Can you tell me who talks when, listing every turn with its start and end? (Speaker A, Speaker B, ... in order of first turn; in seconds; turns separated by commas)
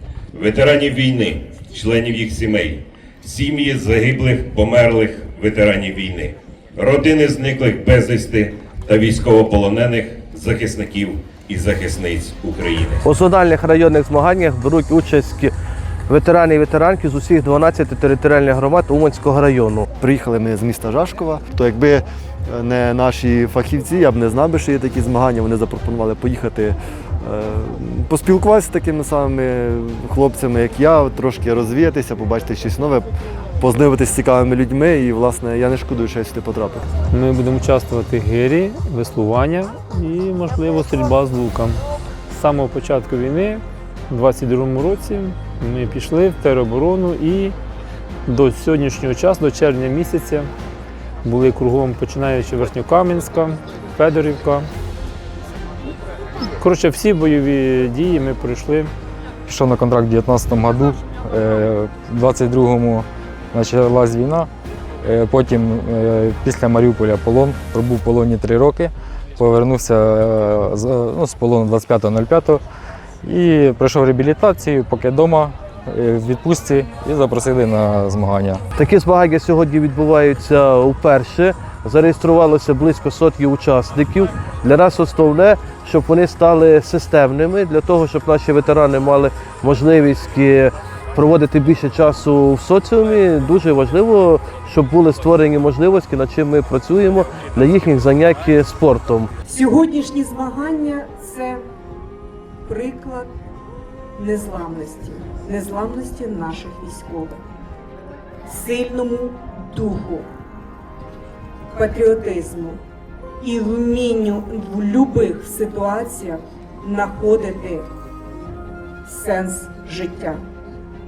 Speaker A: 0.3-13.0, Speaker B: 13.0-15.5, Speaker B: 16.1-19.9, Speaker C: 20.0-33.1, Speaker C: 33.6-36.8, Speaker D: 37.1-41.8, Speaker D: 42.3-47.5, Speaker D: 48.3-50.5, Speaker D: 51.2-54.6, Speaker D: 56.6-58.9, Speaker E: 59.5-64.5, Speaker E: 65.0-72.6, Speaker E: 73.2-78.6, Speaker B: 78.8-99.3, Speaker F: 99.4-101.6, Speaker F: 102.6-103.3, Speaker F: 104.2-107.4, Speaker F: 108.5-110.3, Speaker F: 111.7-112.8, Speaker F: 113.4-117.8, Speaker F: 119.0-120.4